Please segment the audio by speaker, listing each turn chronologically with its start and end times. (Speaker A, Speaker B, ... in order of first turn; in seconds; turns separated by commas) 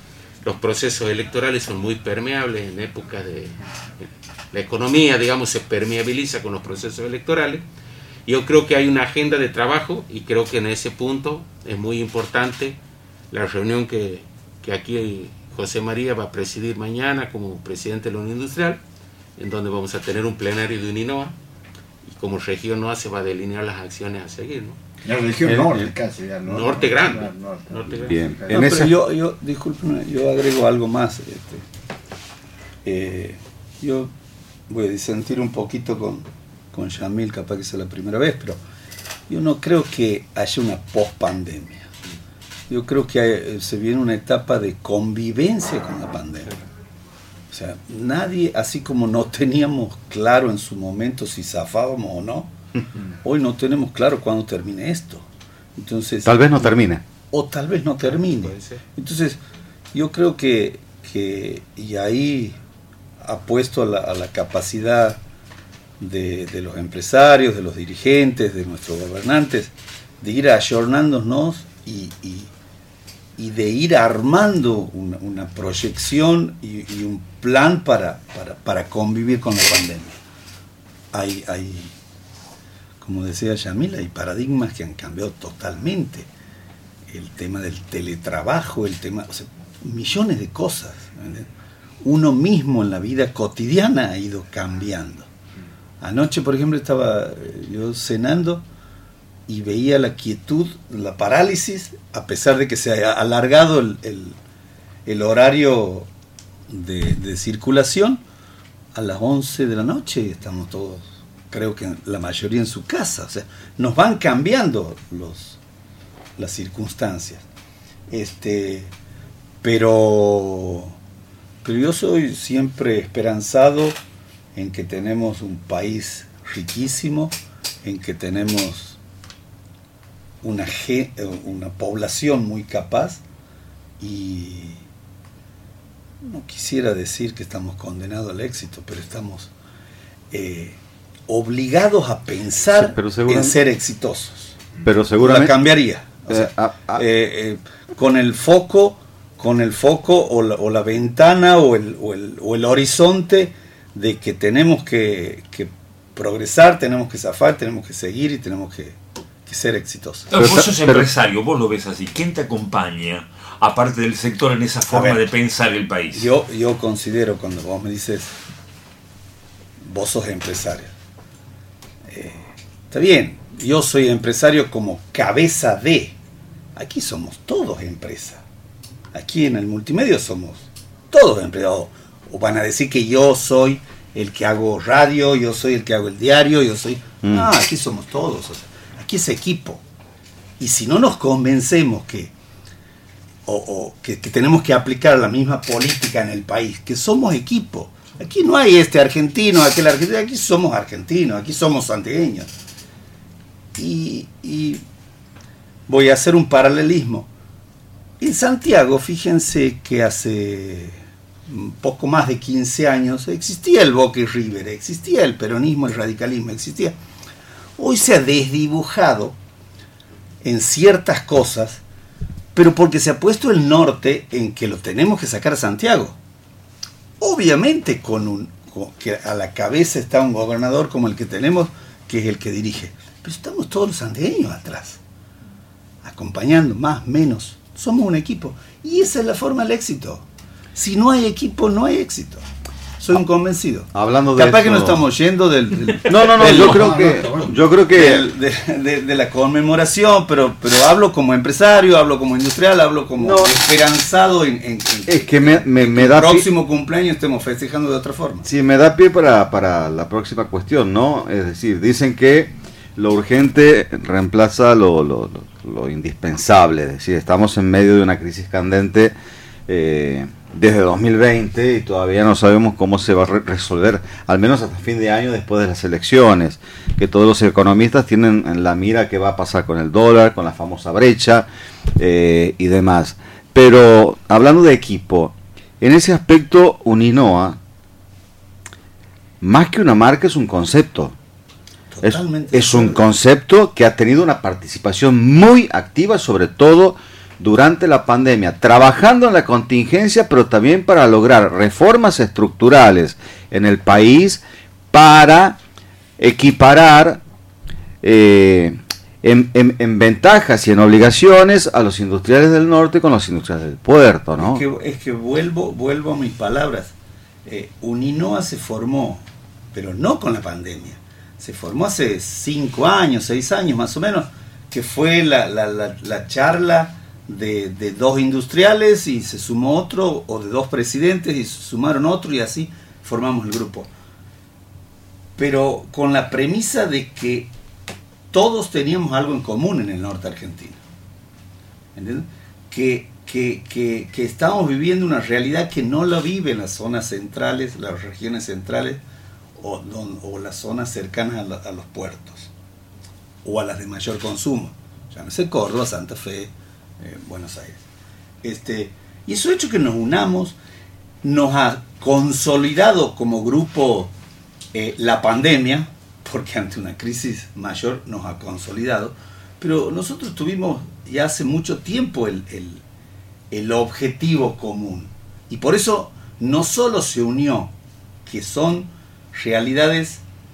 Speaker A: 0.4-7.6, Speaker A: 8.3-12.8, Speaker A: 13.3-18.8, Speaker A: 19.4-21.4, Speaker A: 22.1-24.8, Speaker B: 25.0-28.6, Speaker C: 25.4-25.8, Speaker A: 26.4-28.5, Speaker C: 28.1-28.9, Speaker D: 28.5-31.6, Speaker D: 32.9-34.1, Speaker D: 34.7-38.6, Speaker D: 39.3-41.9, Speaker D: 42.7-46.5, Speaker D: 47.5-52.5, Speaker D: 53.2-55.3, Speaker D: 55.8-56.8, Speaker C: 56.2-57.0, Speaker D: 57.3-59.4, Speaker A: 58.4-58.8, Speaker D: 59.9-62.6, Speaker D: 63.2-65.2, Speaker D: 66.0-72.5, Speaker D: 73.4-80.2, Speaker D: 81.1-82.0, Speaker D: 83.0-86.3, Speaker D: 87.1-91.5, Speaker D: 92.0-95.3, Speaker D: 96.0-98.6, Speaker D: 99.5-104.4, Speaker D: 105.1-106.1, Speaker D: 106.7-108.2, Speaker D: 109.0-115.6, Speaker D: 116.4-117.5, Speaker D: 118.1-118.9, Speaker D: 119.6-121.0, Speaker D: 121.6-124.0, Speaker D: 124.5-129.0, Speaker D: 130.4-133.2, Speaker D: 134.0-134.8, Speaker D: 136.2-139.5, Speaker D: 140.3-144.6, Speaker C: 142.7-143.6, Speaker C: 144.8-145.6, Speaker D: 145.2-160.3, Speaker C: 146.3-147.0, Speaker E: 160.3-166.3, Speaker C: 160.4-161.1, Speaker D: 164.9-165.2, Speaker D: 166.1-168.3, Speaker D: 169.8-170.9, Speaker D: 172.1-176.2, Speaker D: 176.8-178.4, Speaker D: 179.1-189.8, Speaker C: 187.2-187.5, Speaker D: 190.6-192.3, Speaker D: 193.5-202.5, Speaker D: 203.8-204.8, Speaker D: 205.9-207.3, Speaker D: 208.2-217.0, Speaker D: 217.8-219.4, Speaker D: 220.4-221.8, Speaker D: 222.5-226.2, Speaker D: 227.2-235.0, Speaker D: 236.0-242.5, Speaker D: 243.0-258.5, Speaker C: 243.9-245.0, Speaker C: 246.1-248.3, Speaker B: 246.3-247.6, Speaker C: 253.2-253.6, Speaker C: 255.1-256.5, Speaker C: 258.4-269.1, Speaker C: 269.7-287.6, Speaker C: 289.4-291.1, Speaker D: 291.9-293.0, Speaker C: 292.0-305.6, Speaker C: 306.2-307.2, Speaker C: 308.0-314.6, Speaker D: 314.4-316.9, Speaker D: 317.5-333.9, Speaker D: 335.4-337.5, Speaker D: 338.3-340.8, Speaker D: 342.0-349.0, Speaker D: 349.6-352.5, Speaker D: 353.4-357.8, Speaker D: 358.4-360.6, Speaker D: 361.2-364.1, Speaker D: 364.7-372.8, Speaker D: 373.5-377.7, Speaker D: 378.3-380.2